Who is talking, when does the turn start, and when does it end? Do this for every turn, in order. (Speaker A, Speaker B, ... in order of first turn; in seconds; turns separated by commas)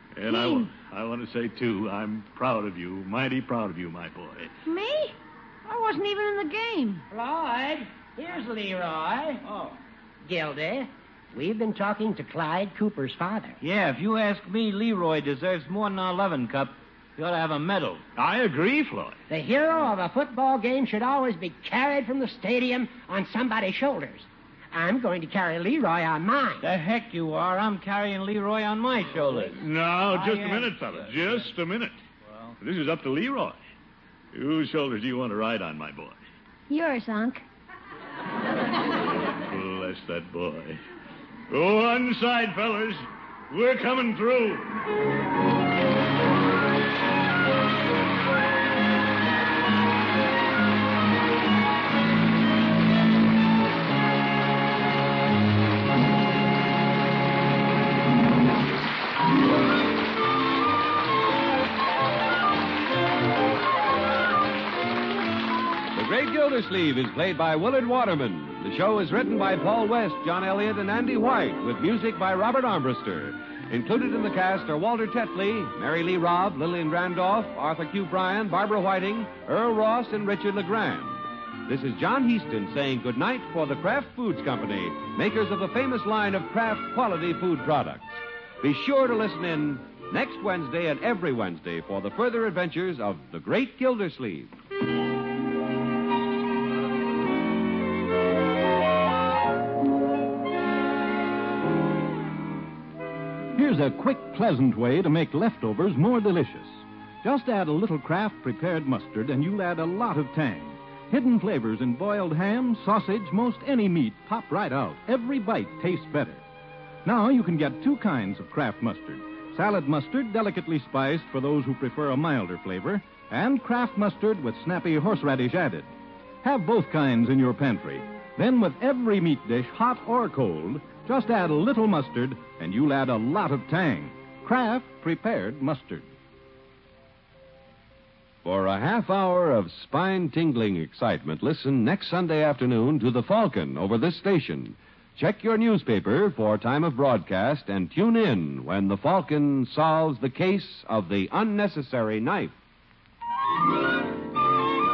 Speaker A: 0.1-4.5, Speaker B: 0.3-0.7, Speaker B: 4.7-5.1, Speaker B: 5.6-7.0, Speaker C: 7.1-9.4, Speaker D: 9.4-9.8, Speaker C: 10.2-13.6, Speaker D: 13.6-19.2, Speaker C: 19.3-26.6, Speaker D: 26.6-31.5, Speaker A: 29.5-32.0, Speaker D: 32.2-32.5, Speaker A: 32.6-33.6, Speaker A: 34.3-36.2, Speaker A: 39.1-40.8, Speaker A: 41.5-44.7, Speaker E: 65.9-94.5, Speaker F: 103.5-116.4, Speaker F: 117.0-125.9, Speaker F: 126.4-136.1, Speaker E: 138.4-152.5